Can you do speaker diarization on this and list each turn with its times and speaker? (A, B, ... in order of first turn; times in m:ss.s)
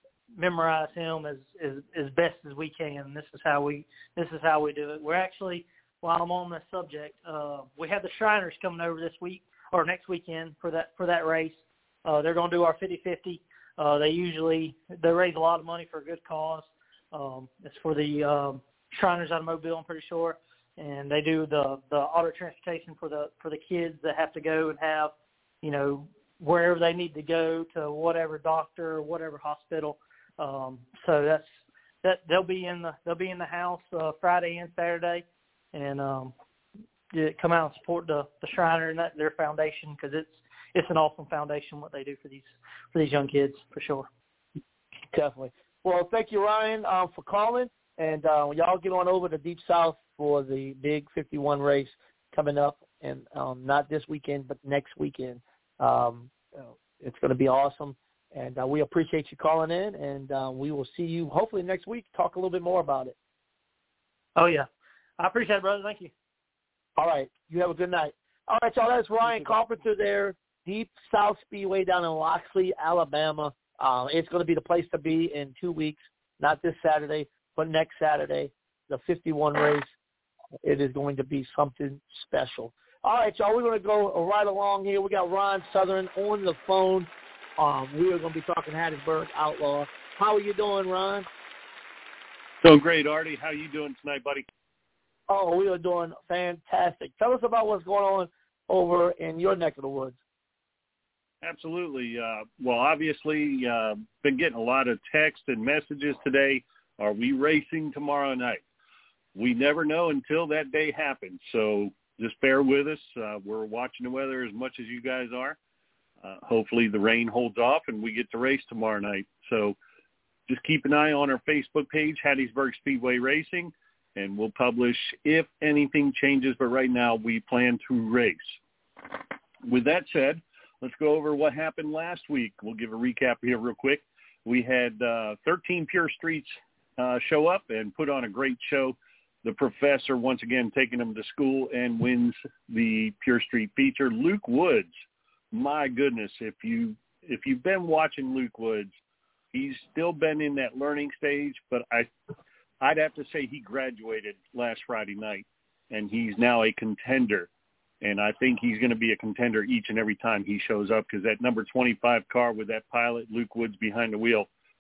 0:00.4-0:36.3 A
0:37.1-0:44.1 A
0:45.1-1:03.2 B
1:04.4-1:04.7 A
1:05.2-1:06.1 A
1:07.0-1:19.9 B
1:20.6-1:31.3 B
1:32.6-1:34.4 C
1:35.3-1:40.2 B
1:41.4-1:48.6 C
1:49.4-1:55.6 C
1:56.2-1:59.8 C
2:00.5-2:08.6 C
2:09.6-2:24.9 C
2:25.5-2:28.9 C
2:29.5-2:32.1 C
2:32.8-2:37.5 C
2:38.0-2:44.5 C